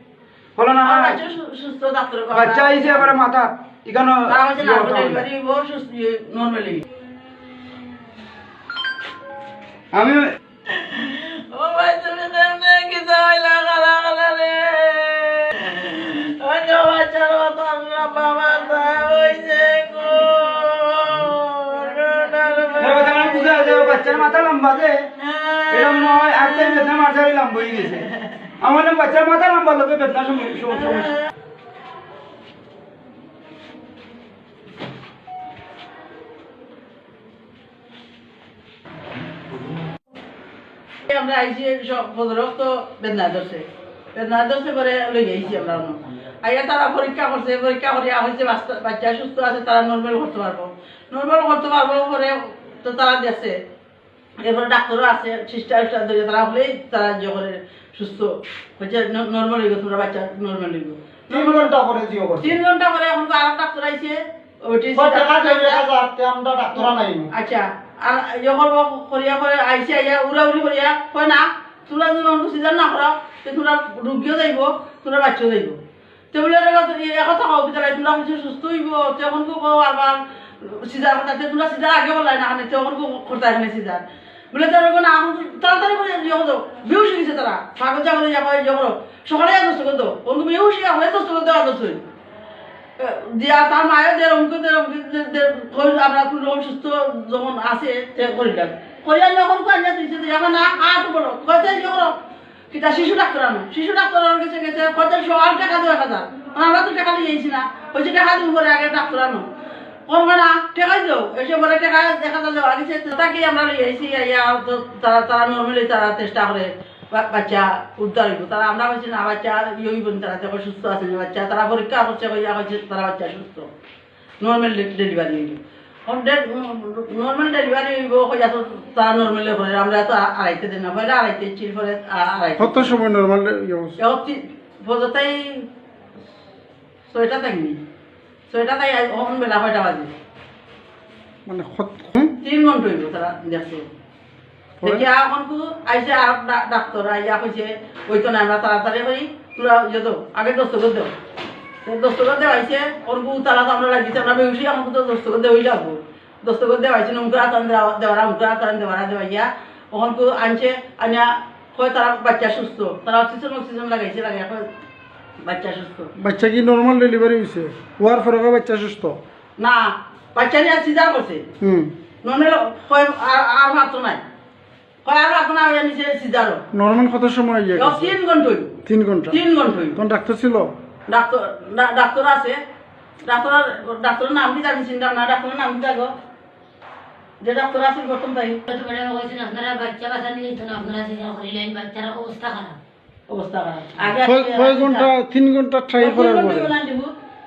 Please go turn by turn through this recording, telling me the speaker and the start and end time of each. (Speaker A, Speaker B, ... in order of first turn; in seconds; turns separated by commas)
Speaker A: 0.6-1.2, Speaker B: 0.8-3.1, Speaker A: 2.3-5.2, Speaker B: 4.3-6.8, Speaker A: 9.9-10.2, Speaker B: 10.7-24.2, Speaker A: 22.8-25.1, Speaker B: 25.6-26.0, Speaker A: 25.7-28.1, Speaker A: 28.6-31.1, Speaker B: 41.0-53.5, Speaker B: 54.4-61.7, Speaker C: 61.3-62.4, Speaker B: 62.4-65.8, Speaker C: 64.9-67.3, Speaker B: 66.7-75.8, Speaker B: 76.3-92.0, Speaker B: 93.0-102.1, Speaker B: 102.7-109.5, Speaker B: 110.1-123.7, Speaker B: 124.4-133.0, Speaker C: 132.6-134.0, Speaker B: 134.0-135.7, Speaker B: 137.1-137.8, Speaker B: 138.5-140.1, Speaker C: 141.4-142.3, Speaker B: 142.4-143.8, Speaker B: 144.8-151.1, Speaker B: 151.8-164.7, Speaker B: 165.4-166.1, Speaker C: 166.2-169.2, Speaker B: 169.6-171.4, Speaker C: 171.6-171.9, Speaker B: 172.2-174.2, Speaker B: 175.0-176.6, Speaker C: 176.7-178.1, Speaker B: 177.7-178.8, Speaker C: 178.8-179.4, Speaker B: 179.3-180.0, Speaker C: 179.9-180.7, Speaker B: 181.1-182.6, Speaker B: 183.2-186.1, Speaker B: 187.4-188.6, Speaker D: 188.7-192.8, Speaker B: 193.3-195.1, Speaker C: 194.2-196.7, Speaker B: 196.0-197.1